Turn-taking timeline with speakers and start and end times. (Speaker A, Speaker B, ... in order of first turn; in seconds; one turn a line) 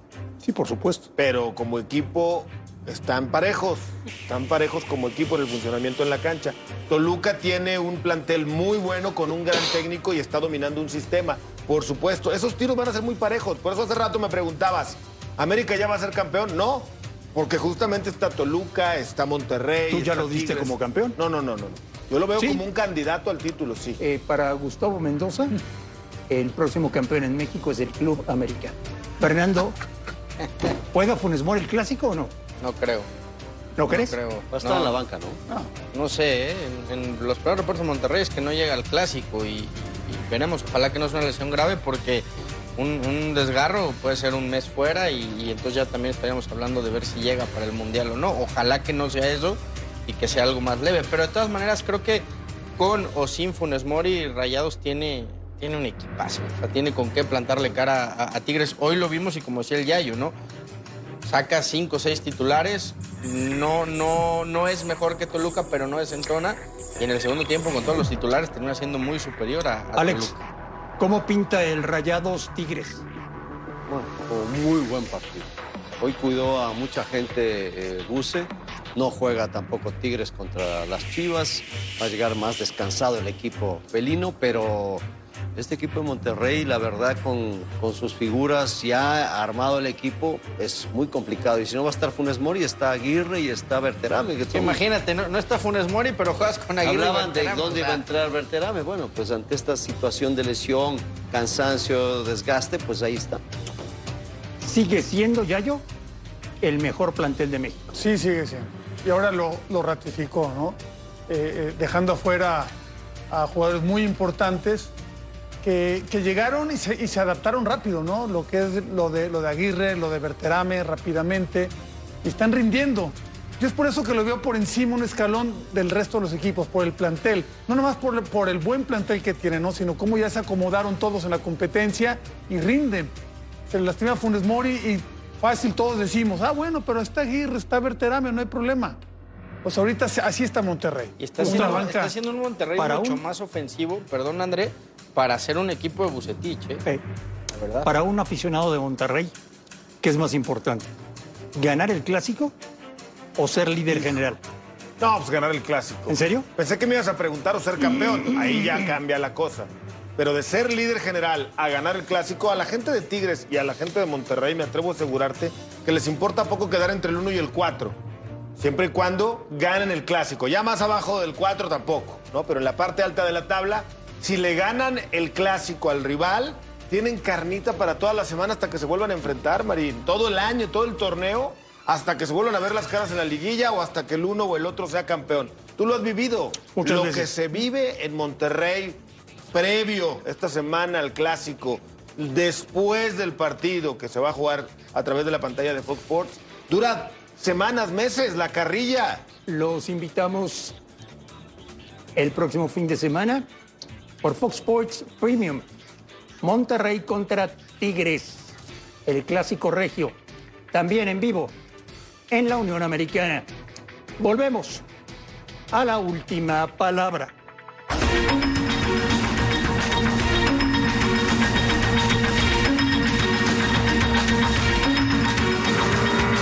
Speaker A: 0.4-1.1
Speaker B: 1.1-24.0
Speaker A: 19.9-21.1
Speaker A: 22.4-22.6
Speaker A: 24.0-25.5
Speaker A: 26.3-29.8
Speaker A: 30.9-32.3
Speaker C: 32.6-33.1
Speaker A: 33.8-34.1
Speaker C: 33.9-34.9
Speaker D: 34.5-35.4
Speaker C: 35.9-42.2
Speaker C: 42.8-52.2
Speaker C: 52.8-60.3
Speaker C: 61.2-70.3
Speaker A: 70.0-70.3
Speaker A: 71.0-73.0
Speaker D: 73.9-75.5
Speaker D: 76.0-85.0
Speaker D: 85.5-94.8
Speaker C: 94.5-98.0
Speaker D: 96.8-103.4
Speaker A: 104.6-105.8
Speaker A: 106.6-107.9
Speaker E: 107.9-112.7
Speaker E: 113.3-114.9
Speaker E: 115.6-133.1
Speaker E: 133.7-139.0
Speaker E: 139.6-142.1
Speaker C: 141.2-146.8
Speaker A: 141.4-141.9
Speaker A: 142.8-143.2
Speaker C: 147.5-147.9
Speaker A: 147.8-149.3
Speaker A: 150.0-150.9
Speaker A: 151.5-152.5
Speaker A: 153.4-154.4
Speaker B: 155.0-168.0
Speaker A: 156.1-156.5
Speaker B: 168.6-189.0
Speaker A: 186.7-187.3
Speaker B: 189.5-199.2
Speaker A: 199.5-200.7
Speaker A: 202.2-203.4
Speaker A: 204.2-205.7
Speaker A: 206.4-210.2
Speaker A: 210.7-211.5
Speaker A: 212.3-213.5
Speaker A: 214.2-214.8
Speaker A: 215.7-217.3